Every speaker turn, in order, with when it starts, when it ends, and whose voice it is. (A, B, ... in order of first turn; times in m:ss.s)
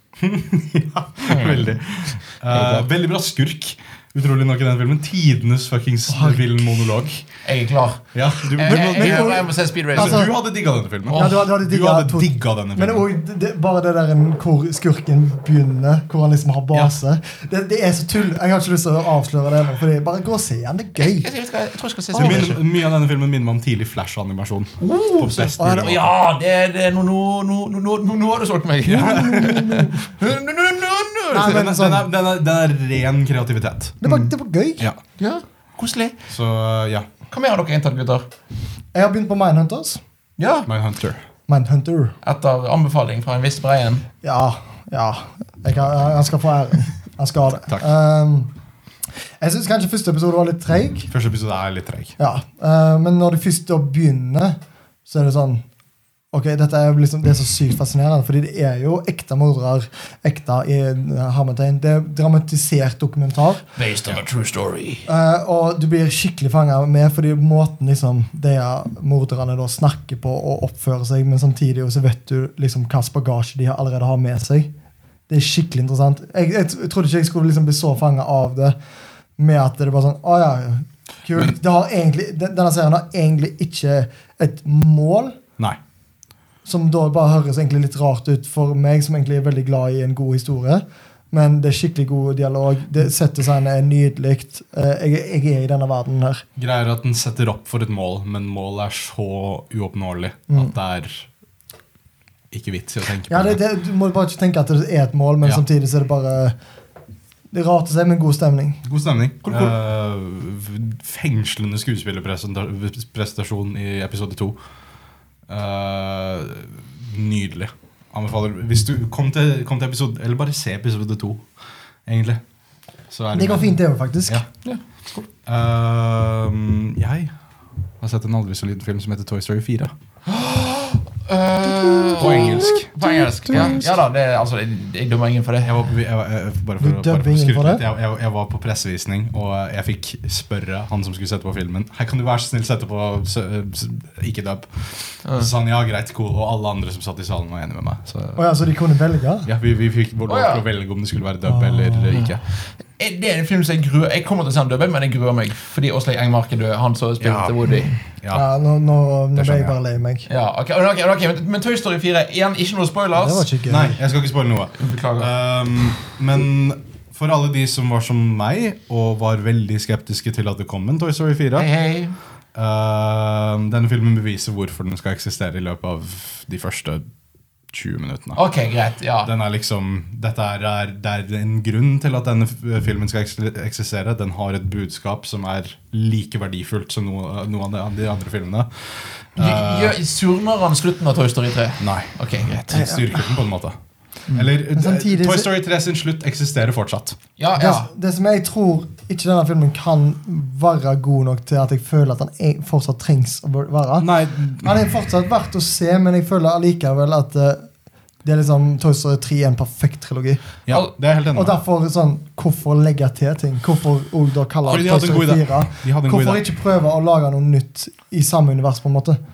0:00.2-0:07.2 A
0:01.2-0:01.8 B
0:02.5-0:02.8 B
0:06.1-0:06.9 C
0:07.4-0:08.0 B
0:08.1-0:13.0 A
0:08.6-0:10.3 B
0:08.6-0:10.3 C
0:11.1-0:11.4 B
0:11.1-0:21.3 C
0:21.0-0:22.6 B
0:22.1-0:22.4 C
0:22.1-0:26.0 A
0:24.8-0:31.5 B
0:25.6-0:25.9 C
0:28.9-0:30.0 C
0:28.9-0:29.7 A
0:31.3-0:32.1 C
0:31.3-0:34.0 A
0:34.0-0:34.8 C
0:35.2-0:36.2 B
0:36.3-0:37.1 A
0:37.3-0:38.2 B
0:38.9-0:40.0 C
0:40.4-0:40.7 B
0:40.7-0:41.2 A
0:41.5-0:42.1 C
0:42.2-0:44.0 B
0:44.2-0:48.5 C
0:49.4-0:51.1 C
0:51.1-0:52.1 A
0:52.2-0:55.6 C
0:56.3-1:03.6 C
1:03.8-1:05.0 B
1:05.1-1:14.7 C
1:15.3-1:18.8 C
1:19.4-1:25.4 C
1:26.6-1:36.4 C
1:36.6-1:41.3 A
1:42.5-1:43.6 A
1:43.3-1:46.5 C
1:47.5-1:48.8 C
1:48.8-1:54.6 A
1:49.4-1:49.7 B
1:55.5-2:01.5 A
2:02.0-2:02.4 A
2:03.1-2:03.7 A
2:03.3-2:04.4 C
2:04.6-2:05.2 B
2:05.4-2:07.3 A
2:08.0-2:09.9 A
2:10.2-2:15.7 B
2:11.8-2:13.9 C
2:12.2-2:12.9 A
2:13.5-2:13.8 A
2:15.6-2:28.4 A
2:16.8-2:17.8 C
2:28.4-2:29.5 C
2:29.4-2:32.4 A
2:30.3-2:30.6 B
2:31.4-2:32.1 C
2:32.1-2:32.4 B
2:32.9-2:37.9 B
2:37.2-2:37.6 A
2:38.3-2:40.2 C
2:39.3-2:39.8 A
2:40.3-2:43.4 B
2:43.2-2:44.0 C
2:43.7-2:51.7 A
2:44.8-2:45.3 B
2:51.5-2:52.2 B
2:52.5-2:57.1 A
2:57.7-2:58.4 A
2:58.3-2:59.3 B
2:59.2-3:10.0 A
3:09.4-3:12.8 B
3:11.8-3:12.1 A
3:12.7-3:13.8 A
3:12.7-3:13.2 C
3:14.3-3:17.2 A
3:14.7-3:15.5 C
3:17.4-3:17.9 B
3:17.6-3:27.6 C
3:24.0-3:24.8 A
3:28.2-3:30.4 C
3:30.7-3:31.6 A
3:31.3-3:39.2 C
3:34.6-3:36.4 A